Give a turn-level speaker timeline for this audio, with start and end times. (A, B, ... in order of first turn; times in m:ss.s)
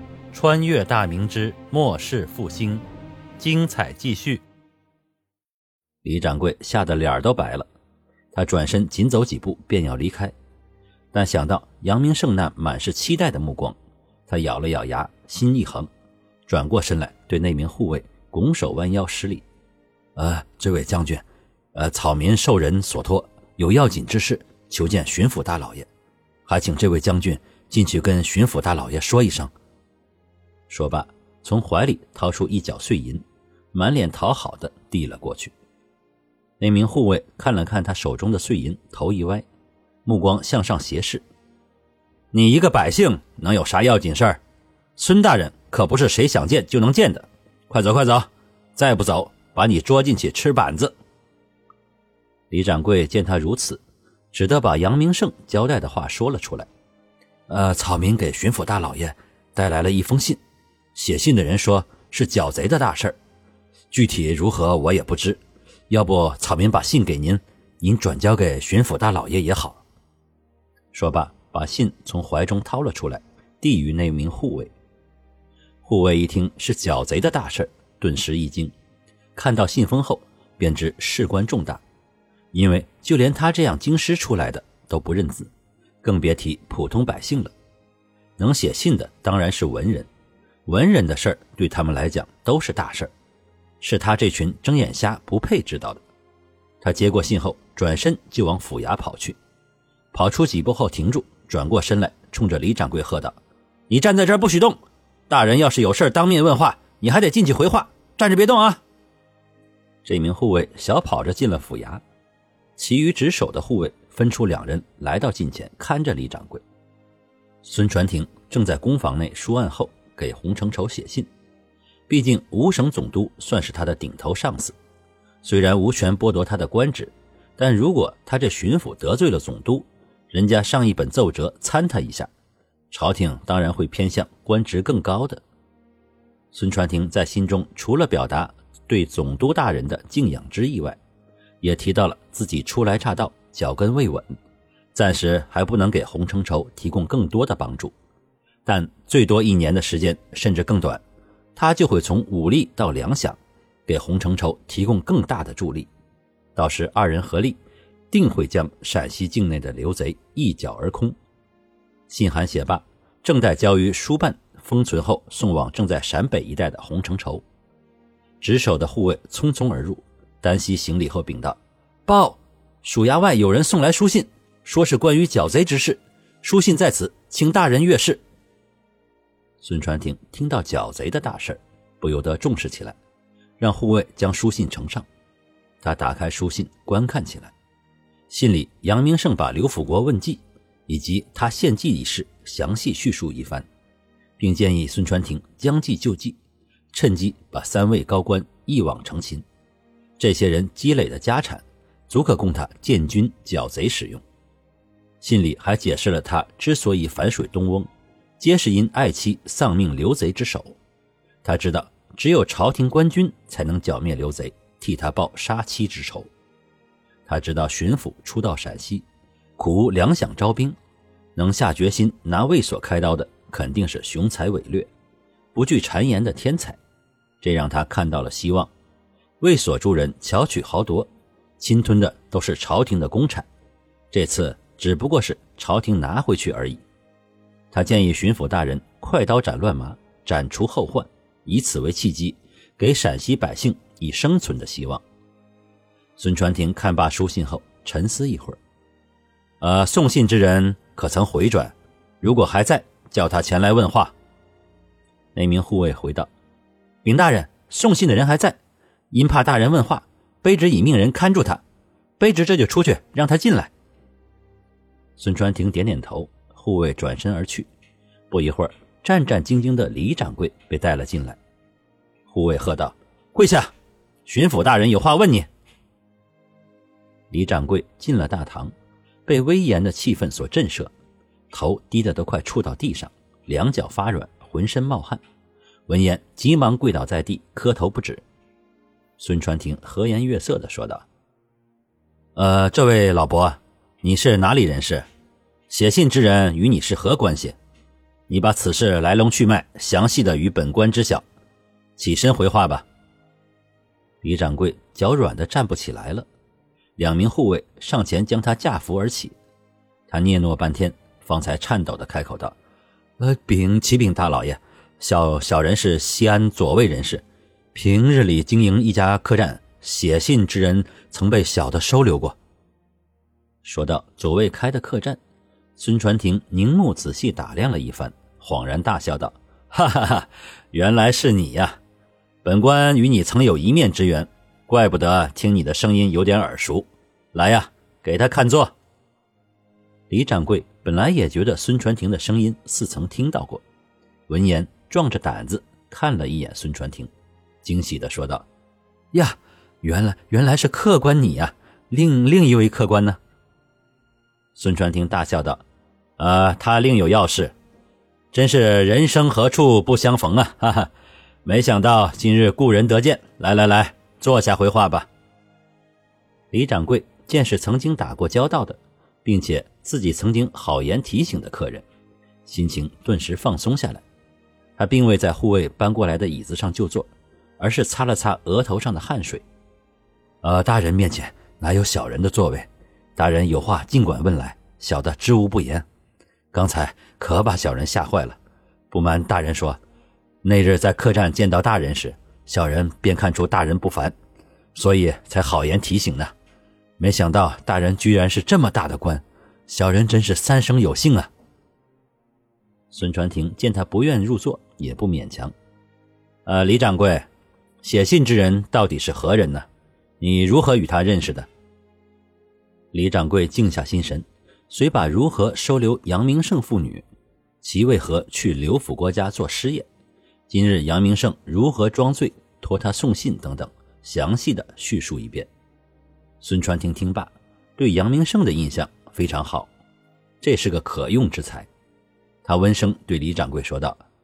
0:00.3-0:02.8 A
0:03.4-0:04.4 A
0:06.0-0:07.7 A
0:08.3-0:10.3 A
0:11.1-0:15.9 A
0:16.5-0:19.4 A
0:20.2-0:25.9 A
0:26.5-0:29.5 A
0:30.7-0:35.5 A
0:36.6-0:39.4 A
0:40.0-0:41.2 A
0:42.3-0:44.4 A
0:45.0-0:50.9 A
0:52.5-0:56.7 A
0:57.5-1:00.4 A
1:00.9-1:03.2 A
1:03.9-1:09.8 A
1:10.9-1:14.7 A
1:15.8-1:18.7 A
1:19.3-1:21.8 A
1:22.5-1:25.5 A
1:26.0-1:27.5 A
1:28.4-1:30.1 A
1:30.7-1:33.1 A
1:33.8-1:36.0 A
1:36.8-1:39.4 A
1:40.1-1:43.4 A
1:43.9-1:48.8 A
1:50.0-1:52.0 A
1:52.8-1:56.6 A
1:57.6-2:01.3 A
2:02.1-2:04.8 A
2:05.4-2:12.3 A
2:12.9-2:15.4 A
2:16.5-2:21.0 A
2:21.6-2:24.3 A
2:24.9-2:27.9 A
2:28.6-2:31.0 A
2:31.6-2:35.9 A
2:36.6-2:37.6 A
2:38.1-2:41.2 A
2:42.1-2:47.4 A
2:48.4-2:58.2 A
2:59.6-3:03.0 A
3:03.6-3:05.1 A
3:05.8-3:07.5 A
3:08.3-3:13.7 A
3:14.4-3:16.4 A
3:16.9-3:19.4 A
3:20.2-3:24.2 A
3:25.2-3:30.8 A
3:31.4-3:36.3 A
3:37.2-3:39.0 A
3:39.6-3:40.8 A
3:41.4-3:44.9 A
3:45.5-3:46.8 A
3:47.4-3:48.7 A
3:49.4-3:53.5 A
3:54.1-3:56.8 A
3:57.7-4:05.0 A
4:06.2-4:08.6 A
4:09.6-4:14.1 A
4:15.3-4:16.3 A
4:17.0-4:18.6 A
4:19.1-4:21.6 A
4:22.2-4:23.7 A
4:25.2-4:27.7 A
4:28.3-4:31.4 A
4:32.3-4:33.7 A
4:34.3-4:35.5 A
4:37.3-4:38.7 A
4:39.3-4:40.9 A
4:41.5-4:45.2 A
4:45.9-4:48.2 A
4:49.2-4:51.1 A
4:52.4-4:55.1 A
4:55.7-4:57.6 A
4:58.3-5:01.2 A
5:02.0-5:02.9 A
5:04.2-5:06.3 A
5:07.0-5:09.4 A
5:10.1-5:12.6 A
5:13.2-5:22.4 A
5:23.6-5:25.2 A
5:25.8-5:31.8 A
5:32.4-5:38.8 A
5:40.1-5:43.6 A
5:44.3-5:47.1 A
5:47.6-5:48.5 A
5:49.1-5:53.2 A
5:54.6-5:55.6 A
5:56.2-5:57.5 A
5:58.3-6:00.9 A
6:01.4-6:05.1 A
6:06.5-6:11.8 A
6:12.5-6:14.0 A
6:14.8-6:19.4 A
6:20.4-6:25.8 A
6:26.5-6:28.4 A
6:28.9-6:29.8 A
6:30.4-6:34.2 A
6:34.8-6:36.3 A
6:37.0-6:41.3 A
6:42.9-6:45.5 A
6:46.5-6:47.3 A
6:47.8-6:49.7 A
6:50.2-6:51.5 A
6:52.9-6:57.0 A
6:57.6-6:59.9 A
7:00.5-7:05.5 A
7:06.4-7:09.7 A
7:10.4-7:11.7 A
7:12.4-7:14.0 A